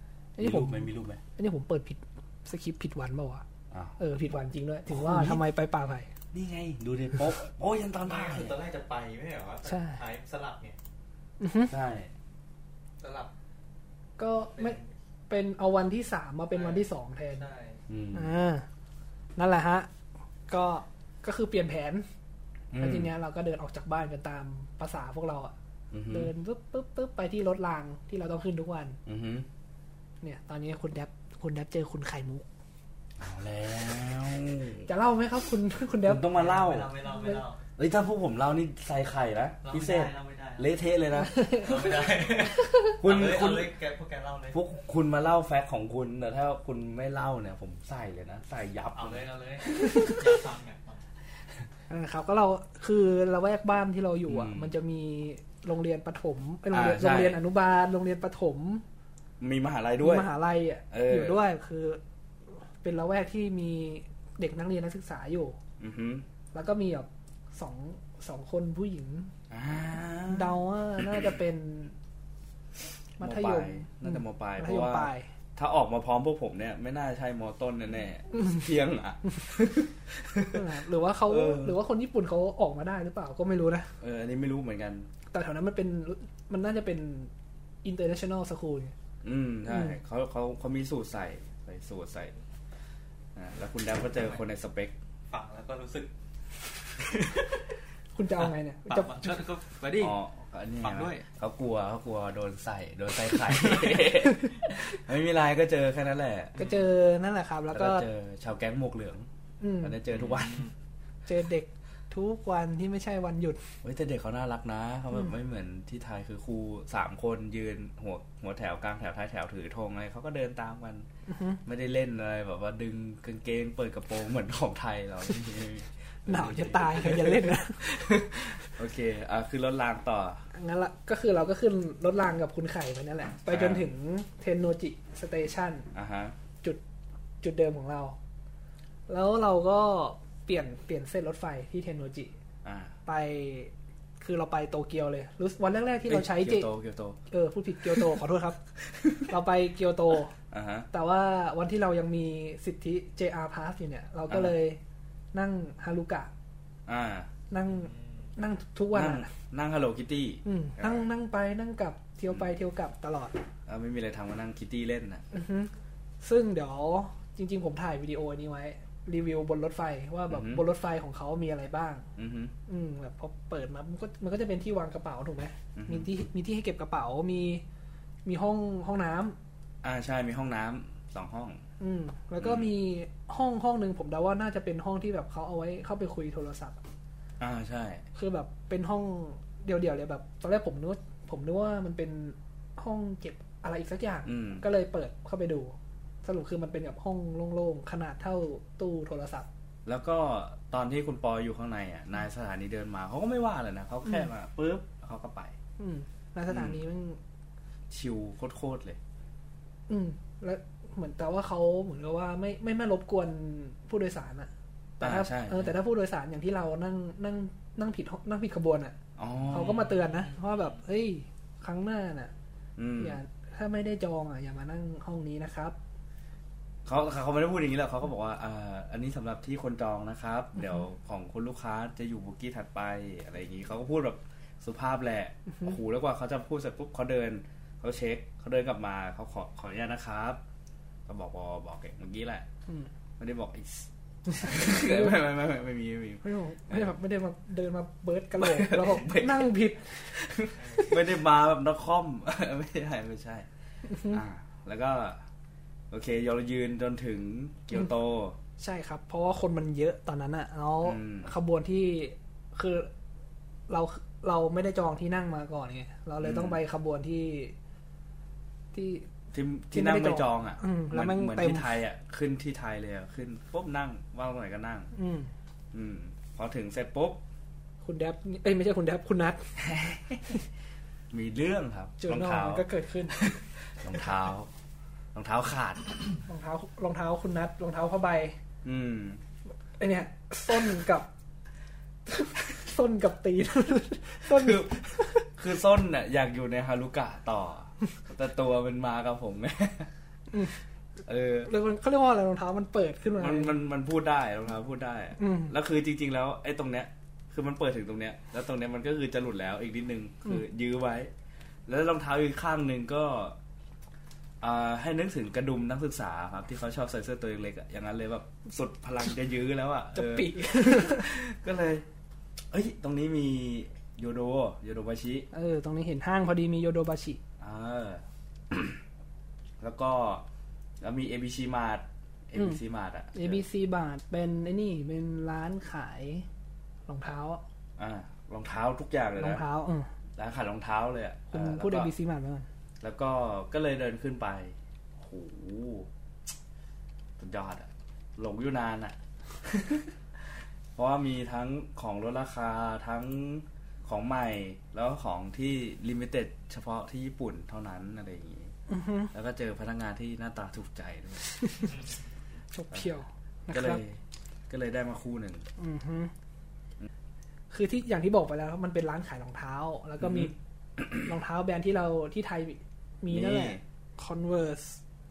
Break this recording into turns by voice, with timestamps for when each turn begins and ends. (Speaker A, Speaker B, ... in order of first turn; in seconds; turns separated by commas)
Speaker A: 0.4-3.4, Speaker B: 0.4-1.2, Speaker A: 4.0-6.1, Speaker B: 4.9-5.4, Speaker B: 6.3-8.6, Speaker C: 8.0-10.8, Speaker A: 9.6-10.0, Speaker A: 11.4-11.7, Speaker B: 11.7-12.1, Speaker C: 13.0-13.3, Speaker A: 14.2-17.4, Speaker C: 14.6-14.9, Speaker C: 16.5-17.8, Speaker B: 17.9-18.3, Speaker A: 18.1-18.6, Speaker A: 19.4-19.9, Speaker A: 20.5-22.1, Speaker B: 22.7-23.1, Speaker A: 22.8-25.5, Speaker B: 25.9-26.3, Speaker A: 26.1-29.0, Speaker B: 29.1-29.5, Speaker A: 30.2-32.5, Speaker B: 33.2-34.9, Speaker A: 34.9-36.3, Speaker B: 36.0-36.9, Speaker C: 36.3-37.6, Speaker A: 37.1-37.4, Speaker B: 37.8-41.6, Speaker C: 39.6-40.7, Speaker A: 41.2-41.8, Speaker C: 41.6-44.6, Speaker B: 43.0-43.7, Speaker B: 44.5-49.2, Speaker C: 48.9-51.0, Speaker A: 49.8-50.1, Speaker A: 51.9-58.8, Speaker B: 54.3-54.7, Speaker B: 56.7-57.4, Speaker B: 59.4-60.3, Speaker A: 60.0-62.0, Speaker B: 60.9-61.4, Speaker A: 62.8-65.6, Speaker B: 65.8-66.2, Speaker A: 66.5-69.3, Speaker B: 69.5-71.3, Speaker A: 70.3-72.0, Speaker A: 73.2-75.3, Speaker B: 73.2-80.6, Speaker A: 80.5-83.9, Speaker B: 81.3-81.8, Speaker B: 84.0-85.1, Speaker A: 85.3-87.3, Speaker A: 87.8-88.9, Speaker B: 89.2-92.3, Speaker A: 89.7-90.0, Speaker B: 93.3-94.9, Speaker C: 95.3-96.1, Speaker A: 98.1-99.3, Speaker C: 98.4-100.2, Speaker B: 100.0-106.5, Speaker C: 100.8-101.2, Speaker A: 106.5-108.0, Speaker C: 106.6-106.8, Speaker B: 107.7-109.3, Speaker A: 109.6-110.0, Speaker B: 109.8-110.7, Speaker C: 110.1-110.7, Speaker A: 111.3-113.6, Speaker B: 113.8-121.0, Speaker A: 121.3-121.6, Speaker B: 121.6-130.4, Speaker A: 126.3-127.9, Speaker A: 130.5-135.9, Speaker B: 133.5-133.9, Speaker B: 135.9-136.3, Speaker A: 137.4-138.2, Speaker A: 139.1-142.3, Speaker B: 142.6-142.9, Speaker A: 143.1-146.7, Speaker B: 146.0-147.2, Speaker A: 147.3-148.6, Speaker B: 147.9-148.1, Speaker B: 148.8-149.3, Speaker A: 149.3-150.3, Speaker B: 150.5-150.9, Speaker A: 150.9-154.8, Speaker B: 154.3-154.5, Speaker A: 155.3-156.3, Speaker B: 156.8-157.3, Speaker A: 157.5-159.3, Speaker B: 158.9-161.1, Speaker A: 160.4-163.4, Speaker B: 163.7-165.2, Speaker A: 165.3-165.7, Speaker A: 166.2-172.1, Speaker B: 170.3-170.6, Speaker B: 172.2-172.5, Speaker A: 172.7-177.6, Speaker B: 175.8-176.1, Speaker A: 178.2-179.3, Speaker B: 179.8-181.6, Speaker A: 181.8-186.8, Speaker B: 182.4-182.7, Speaker B: 187.4-188.0, Speaker A: 188.1-199.5, Speaker B: 194.2-194.7, Speaker B: 199.8-205.5, Speaker A: 205.8-207.2, Speaker B: 206.5-206.8, Speaker B: 207.9-209.0, Speaker A: 209.9-218.9, Speaker B: 215.0-215.8, Speaker B: 219.2-219.8, Speaker A: 219.5-222.3, Speaker C: 219.6-220.6, Speaker B: 222.8-223.2, Speaker A: 223.0-225.8, Speaker B: 226.8-240.4, Speaker B: 241.1-242.4, Speaker B: 243.2-246.9, Speaker A: 244.3-245.2, Speaker A: 246.2-250.1, Speaker B: 248.4-249.5, Speaker B: 250.1-253.4, Speaker A: 253.9-254.2, Speaker B: 254.1-255.2, Speaker B: 255.9-258.4, Speaker A: 258.6-262.9, Speaker B: 260.8-261.3, Speaker A: 263.7-267.5, Speaker B: 266.2-266.6, Speaker A: 268.7-269.1, Speaker B: 269.3-274.9, Speaker A: 269.7-271.7, Speaker A: 274.9-275.3, Speaker B: 275.7-277.2, Speaker A: 277.8-279.5, Speaker B: 279.6-280.4, Speaker B: 281.1-284.5, Speaker A: 282.0-283.2, Speaker B: 285.1-286.0, Speaker A: 286.3-288.4, Speaker B: 288.6-289.2, Speaker A: 289.8-291.1, Speaker A: 292.1-295.2, Speaker B: 294.3-299.9, Speaker B: 301.1-301.5, Speaker A: 301.5-303.6, Speaker B: 303.2-311.1, Speaker A: 305.2-305.5, Speaker B: 311.7-313.4, Speaker B: 314.4-321.9, Speaker A: 319.9-321.1, Speaker B: 322.5-325.3, Speaker A: 325.3-327.2, Speaker B: 327.4-328.8, Speaker B: 329.6-330.2, Speaker B: 330.8-333.4, Speaker A: 333.1-336.2, Speaker A: 336.9-337.4, Speaker B: 337.8-339.4, Speaker A: 339.2-339.9, Speaker B: 340.2-341.9, Speaker A: 341.3-342.4, Speaker B: 342.8-345.9, Speaker B: 347.2-349.9, Speaker B: 350.7-358.5, Speaker A: 358.7-359.1, Speaker B: 359.1-361.7, Speaker A: 361.4-361.7, Speaker A: 362.5-363.8, Speaker B: 363.5-365.4, Speaker A: 365.6-366.1, Speaker A: 367.5-370.3, Speaker B: 370.0-371.1, Speaker A: 371.0-374.8, Speaker B: 373.1-373.6